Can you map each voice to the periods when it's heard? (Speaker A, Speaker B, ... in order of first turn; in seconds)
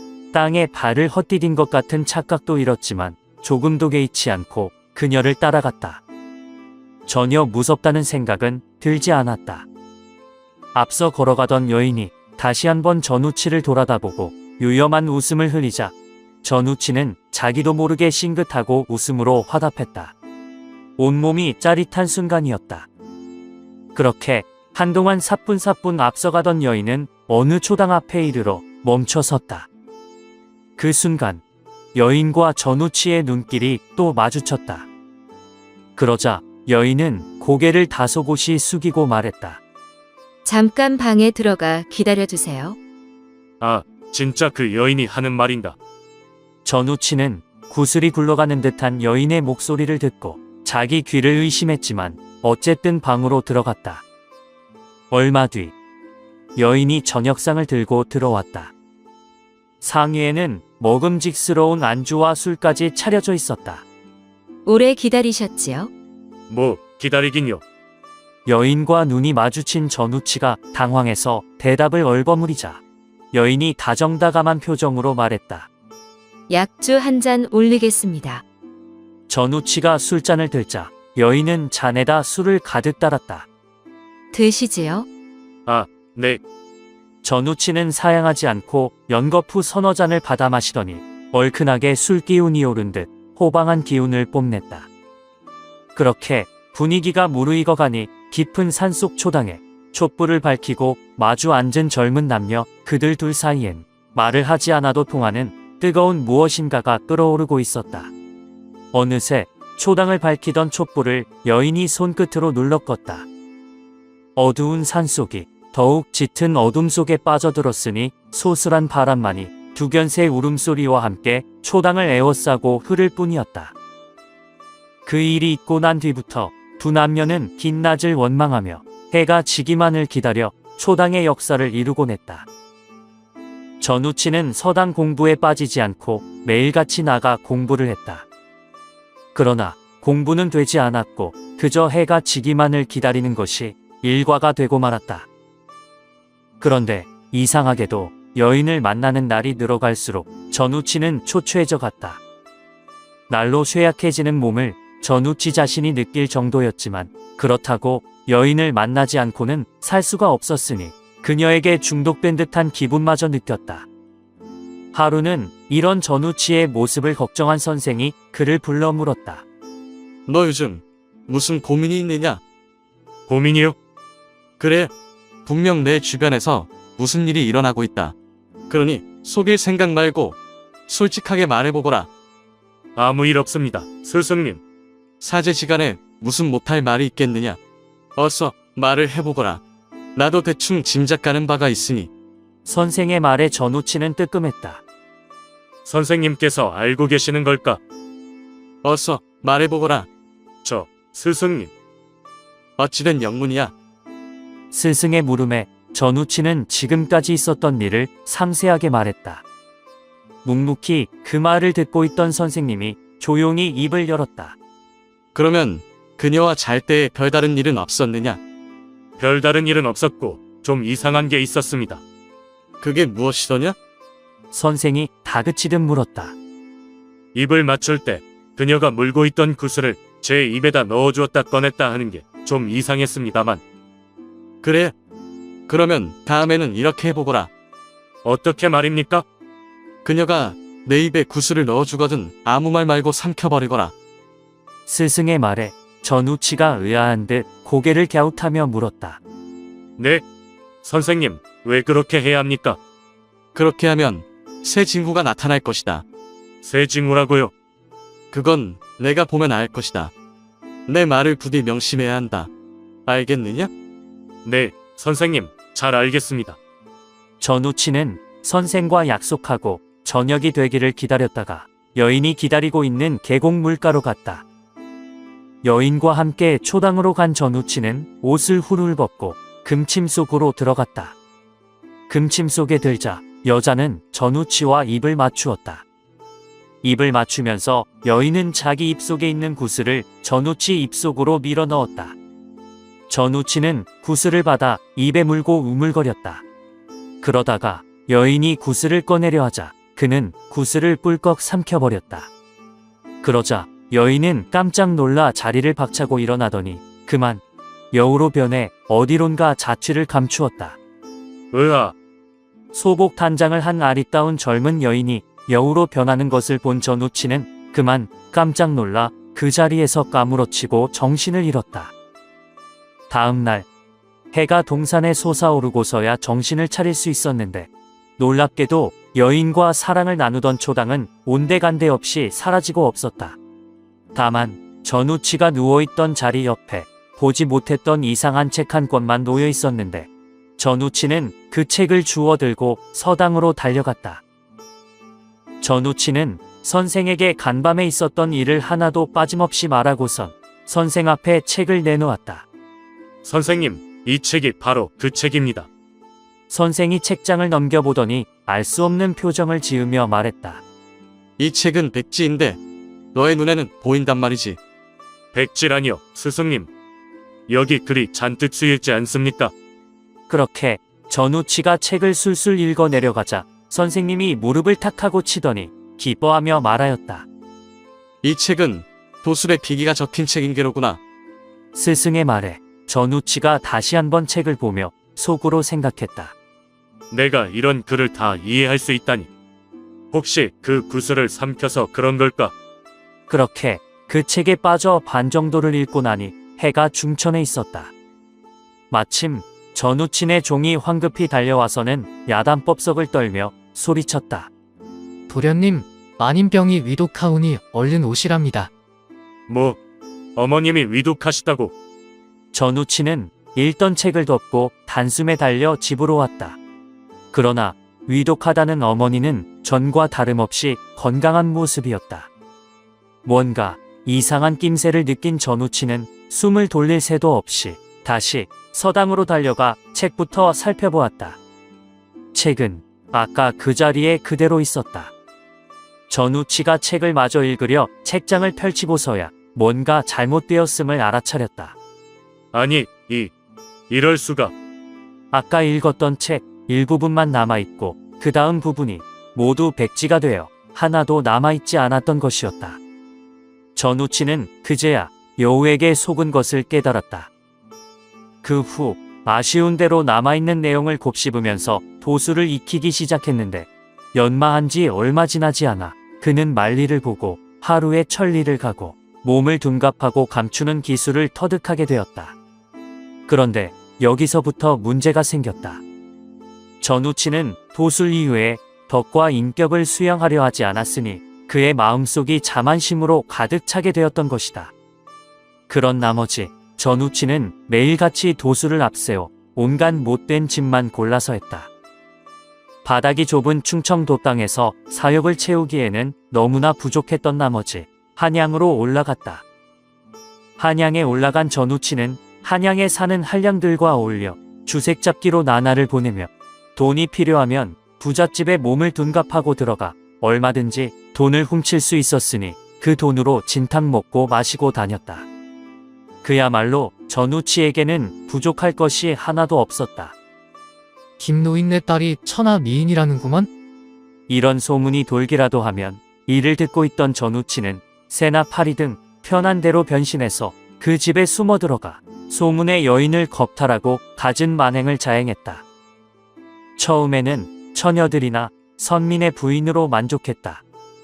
Speaker A: 0.3-6.0, 7.1-9.7, 10.8-20.1, 21.0-22.9, 23.9-29.7, 30.8-31.4, 31.9-34.9, 36.0-39.6, 46.6-54.0, 55.1-55.7, 56.6-58.7, 59.8-63.8, 68.5-72.8, 73.3-75.7, 79.3-83.5, 87.2-94.9, 96.0-108.1, 108.9-113.3, 114.4-123.7, 125.1-132.5, 133.8-138.3, 139.3-145.3, 146.6-152.2, 153.3-163.9, 164.9-169.4, 192.7-194.8, 204.7-209.4, 210.4-214.6, 224.5-226.3, 244.9-249.2, 267.4-274.4, 275.6-281.1, 282.1-285.9, 286.8-292.1, 293.1-296.4, 297.2-302.3, 303.2-310.8, 312.7-321.9, 323.1-323.7, 324.3-333.4, 334.1-344.2, 345.6-352.4, 356.5-360.6, 370.3-377.3, 381.8-386.3, 393.3-397.9, 398.9-404.5, 412.5-416.6, 417.3-422.3, 423.2-431.4, 432.3-435.1, 436.1-441.8, 445.3-452.8, 453.8-457.3, 458.4-472.4, 473.3-475.8, 476.8-484.7, 485.7-491.7, 492.9-499.4, 500.6-515.3, 516.2-520.1, 524.3-535.6, 536.8-540.6
Speaker B: 40.5-42.8, 64.7-65.9, 76.5-78.4, 84.3-85.1
Speaker C: 43.6-45.8, 66.5-67.6, 85.7-86.4, 173.3-173.8, 183.0-184.6, 195.8-197.8, 200.6-201.7, 219.2-222.0, 227.3-233.6, 238.2-239.2, 250.0-250.2, 250.8-252.8, 256.6-257.5, 264.4-266.6, 311.5-311.9, 353.2-355.7, 365.3-366.7, 367.5-369.5, 387.1-389.3, 390.1-392.5, 409.5-409.8, 410.4-411.7, 442.5-443.3, 443.9-444.5
Speaker D: 170.3-172.4, 174.6-174.9, 175.5-178.2, 178.7-180.4, 180.9-182.1, 185.2-187.6, 188.2-189.6, 190.2-192.1, 198.8-200.1, 202.8-203.7, 215.3-218.4, 222.8-223.8, 234.6-234.9, 235.7-237.5, 240.1-243.9, 253.6-256.0, 258.3-260.1, 260.9-262.5, 263.1-263.7, 361.4-362.6, 363.1-364.6, 378.2-381.0
Speaker E: 405.3-408.7, 521.2-523.5